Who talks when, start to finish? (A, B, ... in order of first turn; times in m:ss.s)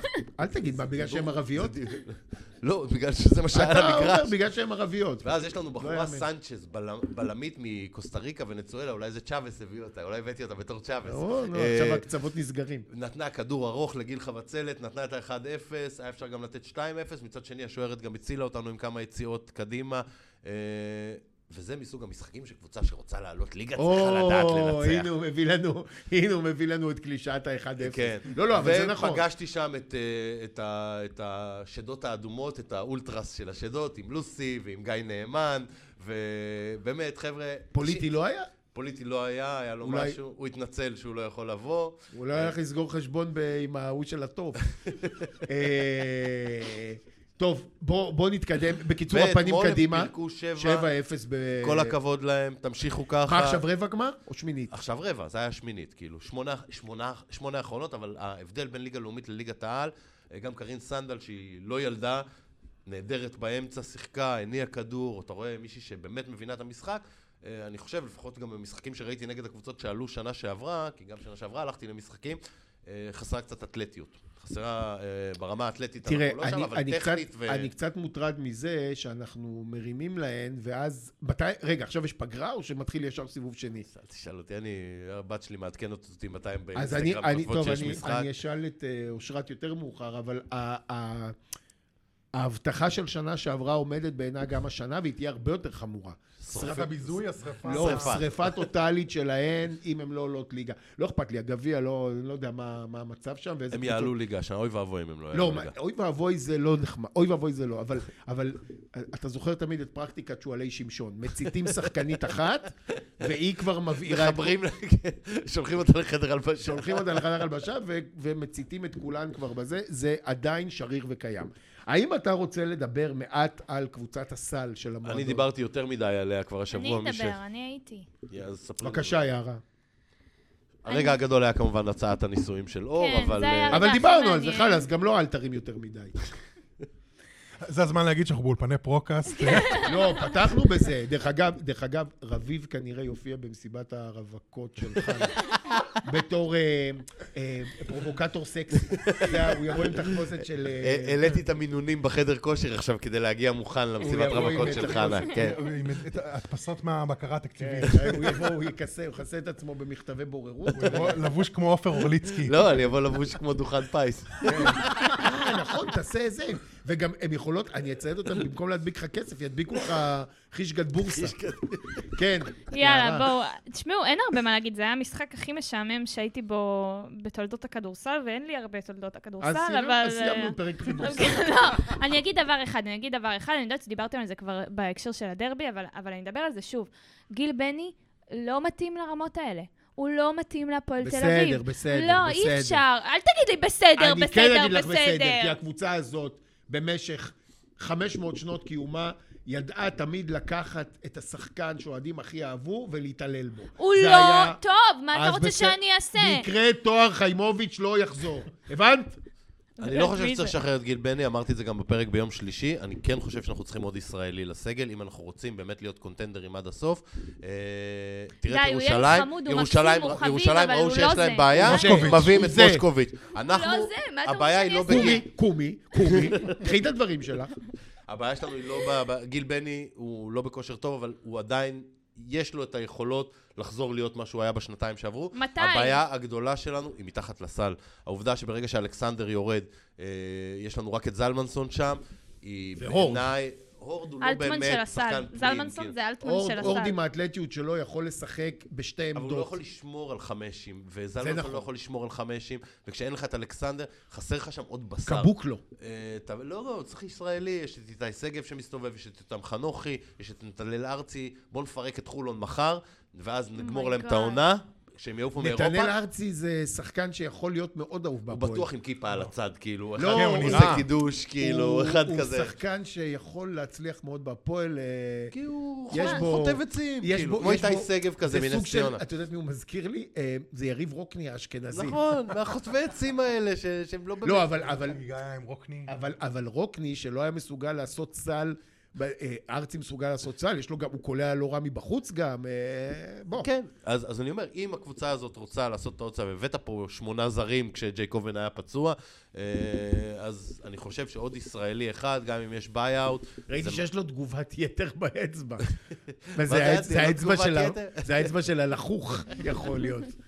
0:00.4-0:01.7 A
0:00.9-0:04.3 B
0:03.5-0:06.2 A
0:05.2-0:12.1 B
0:11.1-0:12.9 A
0:12.9-0:25.1 B
0:23.8-0:29.2 A
0:27.8-0:38.1 B
0:37.7-0:38.5 A
0:38.7-0:42.5 B
0:39.8-0:40.2 A
0:42.1-0:44.6 A
0:44.8-0:45.3 B
0:45.4-0:52.0 A
0:49.1-0:50.9 B
0:51.6-0:53.6 B
0:53.3-0:54.7 A
0:54.7-1:02.2 B
1:02.9-1:17.7 B
1:16.0-1:23.9 A
1:23.9-1:28.3 B
1:26.8-1:31.4 A
1:32.3-1:44.1 A
1:36.4-1:36.9 B
1:36.6-1:38.2 C
1:37.6-1:38.6 B
1:43.7-1:45.7 B
1:45.3-1:54.5 A
1:54.0-1:57.3 B
1:56.6-2:05.4 A
2:05.0-2:07.4 B
2:06.7-2:08.1 D
2:08.3-2:09.2 B
2:08.8-2:09.6 A
2:10.8-2:14.0 B
2:10.9-2:11.2 D
2:13.0-2:14.9 D
2:13.7-2:16.1 A
2:17.7-2:19.9 C
2:19.4-2:20.2 D
2:19.8-2:25.4 A
2:25.0-2:25.8 B
2:26.0-2:31.2 A
2:28.9-2:35.6 B
2:34.0-2:35.5 A
2:34.0-2:38.4 C
2:37.6-2:41.2 A
2:40.8-2:42.6 C
2:42.1-2:45.3 B
2:44.4-2:51.4 A
2:51.0-2:52.1 B
2:52.1-2:53.3 A
2:52.7-3:15.6 D
2:59.4-3:01.6 A
3:11.0-3:12.8 A
3:14.0-3:24.6 A
3:23.8-3:26.5 D
3:25.1-3:29.2 A
3:29.8-3:30.6 D
3:29.8-3:45.2 B
3:38.5-3:41.6 D
3:41.6-3:42.8 A
3:41.6-3:42.2 C
3:43.4-3:45.2 D
3:44.9-3:47.5 A
3:46.0-3:46.6 B
3:48.1-4:06.0 B
3:55.4-3:56.0 D
4:02.8-4:03.3 A
4:04.2-4:07.0 D
4:06.2-4:09.5 A
4:09.2-4:25.9 B
4:11.2-4:11.7 A
4:15.1-4:15.6 A
4:23.6-4:24.4 D
4:25.4-4:28.7 A
4:28.3-4:32.5 B
4:30.0-4:30.9 A
4:30.1-4:30.9 C
4:31.4-4:35.3 A
4:35.3-4:39.0 B
4:35.9-4:42.0 A
4:41.7-4:44.5 B
4:44.2-4:45.0 A
4:44.6-4:45.9 C
4:45.9-4:53.5 A
4:53.4-5:03.8 B
5:03.5-5:05.7 A
5:06.3-5:08.3 B
5:06.4-5:10.1 A